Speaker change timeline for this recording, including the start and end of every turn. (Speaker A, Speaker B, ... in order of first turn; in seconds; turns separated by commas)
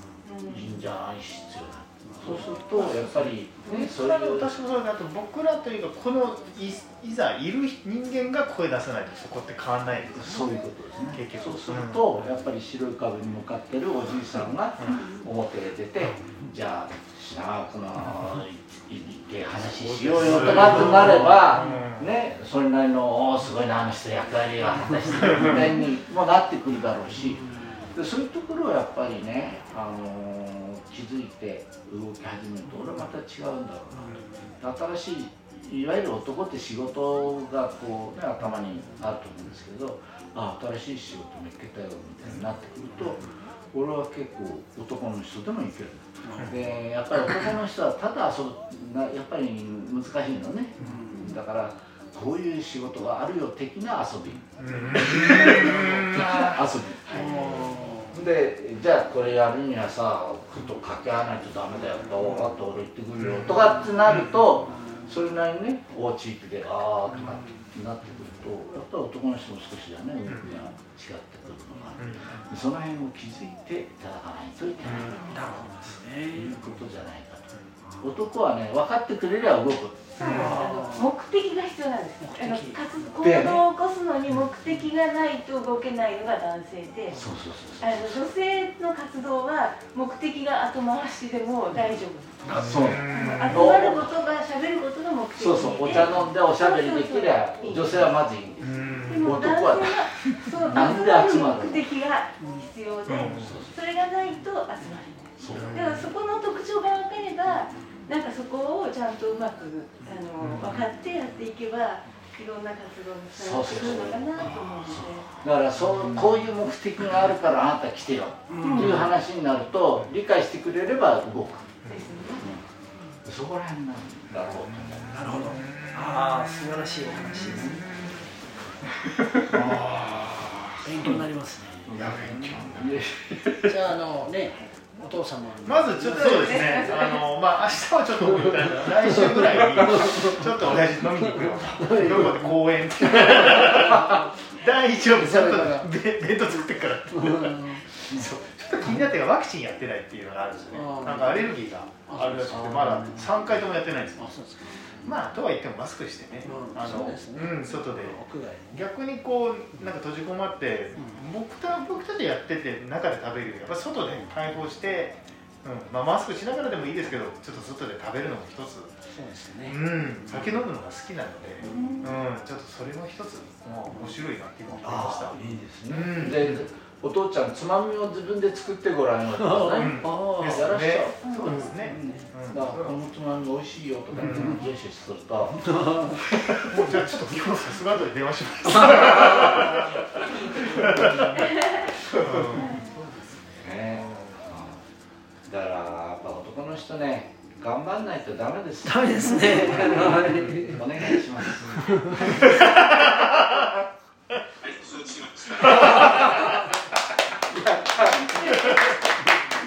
Speaker A: 0.2-0.7, Speaker B: 0.5-4.5, Speaker C: 2.1-2.8, Speaker D: 2.8-10.4, Speaker B: 10.1-75.4, Speaker D: 11.1-12.3, Speaker A: 14.9-15.2, Speaker D: 19.8-22.1, Speaker C: 20.4-21.7, Speaker C: 24.8-25.7, Speaker D: 25.2-25.6, Speaker C: 27.3-27.9, Speaker C: 34.0-34.5, Speaker D: 43.0-43.3, Speaker C: 46.3-46.6, Speaker D: 50.8-51.1, Speaker C: 50.8-51.4, Speaker D: 54.6-56.5, Speaker C: 54.7-56.2, Speaker C: 57.1-58.2, Speaker D: 63.2-64.6, Speaker C: 63.8-64.1, Speaker C: 67.1-67.7, Speaker D: 70.3-70.5, Speaker D: 72.0-72.5, Speaker D: 74.8-75.3, Speaker C: 75.2-76.6, Speaker B: 76.3-80.4, Speaker A: 80.2-87.2, Speaker D: 80.2-80.6, Speaker C: 80.2-81.1, Speaker C: 82.2-82.8, Speaker B: 83.2-83.7, Speaker B: 87.1-88.2, Speaker A: 87.8-98.1, Speaker C: 92.4-93.0, Speaker B: 92.5-94.1, Speaker D: 92.5-93.8, Speaker B: 95.3-101.9, Speaker D: 98.6-99.3, Speaker A: 99.0-115.3, Speaker C: 102.4-102.7, Speaker D: 103.1-103.7, Speaker B: 103.3-103.7, Speaker B: 105.4-105.9, Speaker D: 105.5-106.1, Speaker D: 110.4-110.8, Speaker B: 113.3-121.8, Speaker D: 115.9-116.3, Speaker C: 118.5-119.1, Speaker A: 118.6-119.0, Speaker D: 121.8-122.2, Speaker A: 121.9-122.5, Speaker B: 122.3-122.6, Speaker B: 123.2-125.3, Speaker C: 125.1-127.9, Speaker D: 125.1-128.3, Speaker B: 127.4-127.8, Speaker B: 129.1-131.2, Speaker D: 129.4-131.2, Speaker C: 130.8-132.0, Speaker B: 131.8-133.8, Speaker D: 131.9-132.8, Speaker C: 133.6-136.9, Speaker D: 135.6-154.3, Speaker A: 136.1-137.2, Speaker C: 138.3-140.4, Speaker C: 141.1-144.2, Speaker C: 145.1-145.9, Speaker C: 147.2-147.8, Speaker C: 150.7-151.6, Speaker C: 152.1-153.6, Speaker C: 154.2-155.1, Speaker D: 155.0-168.9, Speaker C: 156.4-158.8, Speaker C: 160.9-161.2, Speaker C: 164.1-164.3, Speaker C: 169.1-170.6, Speaker D: 169.7-176.7, Speaker C: 171.6-172.1, Speaker A: 171.6-172.2, Speaker C: 173.9-174.2, Speaker C: 174.8-175.8, Speaker B: 174.8-186.9, Speaker C: 179.4-180.7, Speaker D: 179.8-182.9, Speaker A: 181.2-181.6, Speaker C: 181.4-182.3, Speaker C: 184.2-184.6, Speaker D: 184.2-184.6, Speaker C: 185.7-186.2, Speaker D: 186.4-193.4, Speaker C: 188.9-189.8, Speaker A: 190.2-190.7, Speaker C: 190.8-191.2, Speaker A: 191.4-191.9, Speaker B: 192.2-192.6, Speaker A: 192.6-192.9, Speaker B: 193.5-194.8, Speaker D: 194.0-194.4, Speaker B: 195.4-203.0, Speaker C: 198.8-202.4, Speaker D: 202.2-203.7, Speaker E: 204.6-206.6, Speaker D: 205.7-206.3, Speaker B: 207.5-208.7, Speaker D: 208.4-208.8